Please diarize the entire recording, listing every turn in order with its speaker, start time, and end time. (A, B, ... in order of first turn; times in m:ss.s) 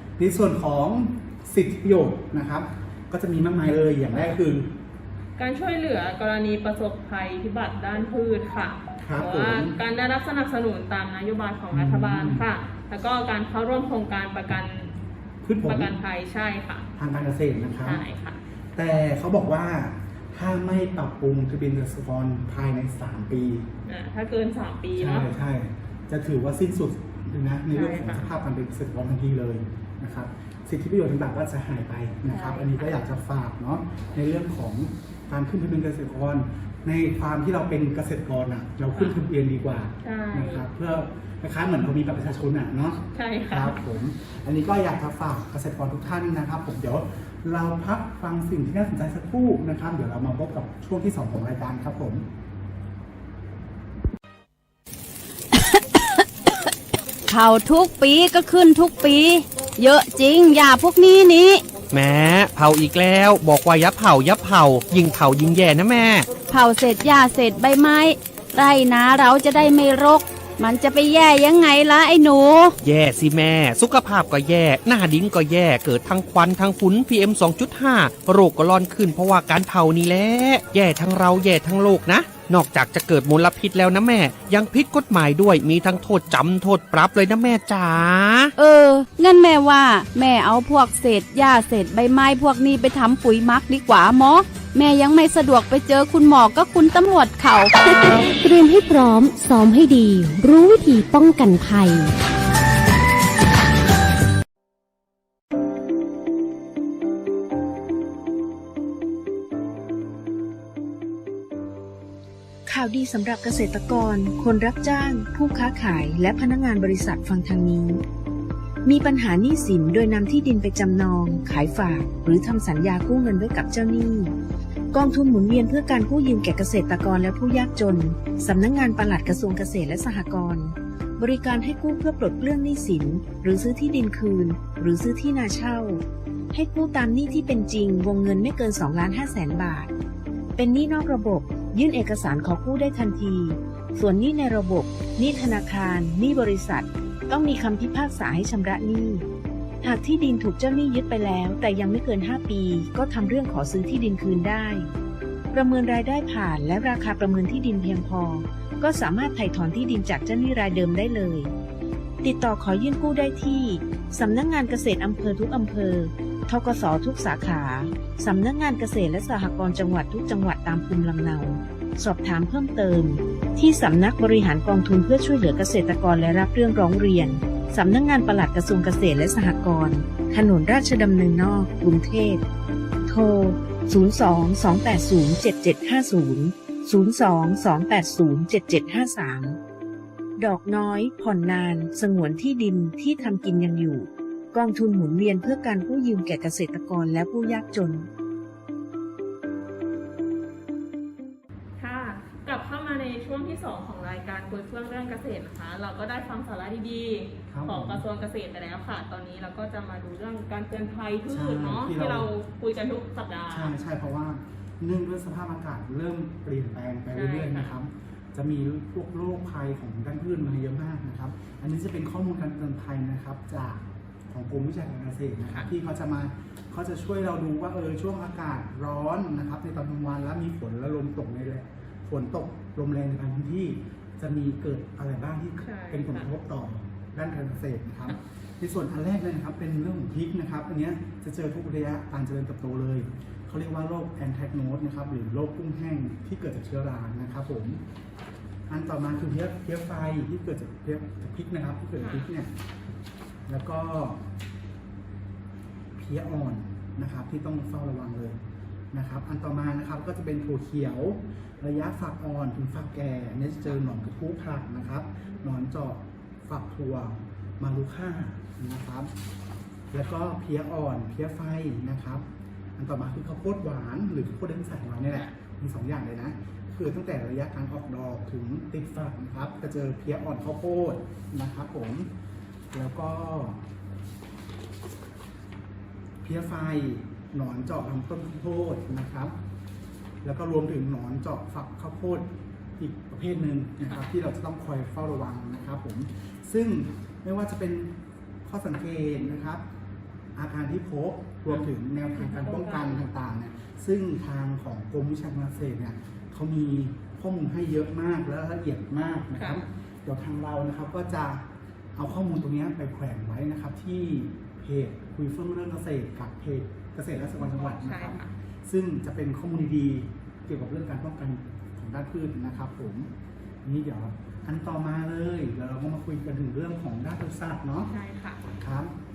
0:00.2-0:04.7 A
0:05.4-0:14.9 B
0:09.0-0:09.8 A
0:11.7-0:12.5 A
0:15.4-0:15.9 A
0:15.6-0:16.9 B
0:17.0-0:18.0 A
0:17.8-0:18.4 B
0:18.8-0:23.7 A
0:23.9-0:25.3 B
0:25.0-0:52.3 A
0:27.7-0:28.3 B
0:32.3-0:32.9 B
0:38.9-0:39.2 B
0:40.0-0:40.7 B
0:43.1-0:43.8 B
0:55.5-0:56.0 C
0:57.3-1:01.6 C
1:01.9-1:06.3 D
1:06.5-1:12.8 C
1:12.8-1:28.5 D
1:28.6-1:38.0 C
1:37.9-1:42.2 E
1:52.7-1:58.0 F
1:58.8-2:04.3 F
2:04.9-2:19.9 F
2:20.6-2:29.2 F
2:29.8-2:34.9 F
2:35.5-2:41.5 F
2:42.2-3:02.4 F
3:03.1-3:09.6 F
3:10.4-3:18.1 F
3:21.8-3:33.7 B
3:27.5-3:28.0 A
3:31.3-3:32.3 A
3:33.5-4:07.8 A
3:37.1-3:37.7 B
3:55.6-3:56.4 B
4:08.7-4:12.5 A
4:12.0-4:12.3 B
4:13.5-4:14.3 A
4:16.0-4:18.4 A
4:18.9-4:29.1 A
4:25.2-4:25.5 B
4:29.9-4:32.2 A
4:32.8-4:42.1 A
4:42.7-4:43.6 A
4:46.2-4:49.3 A
4:50.2-4:59.6 A
5:00.4-5:23.1 A
5:01.5-5:03.1 B
5:09.4-5:09.7 B
5:17.4-5:18.3 B
5:23.6-5:27.9 A
5:27.9-5:28.4 B
5:28.5-5:28.9 A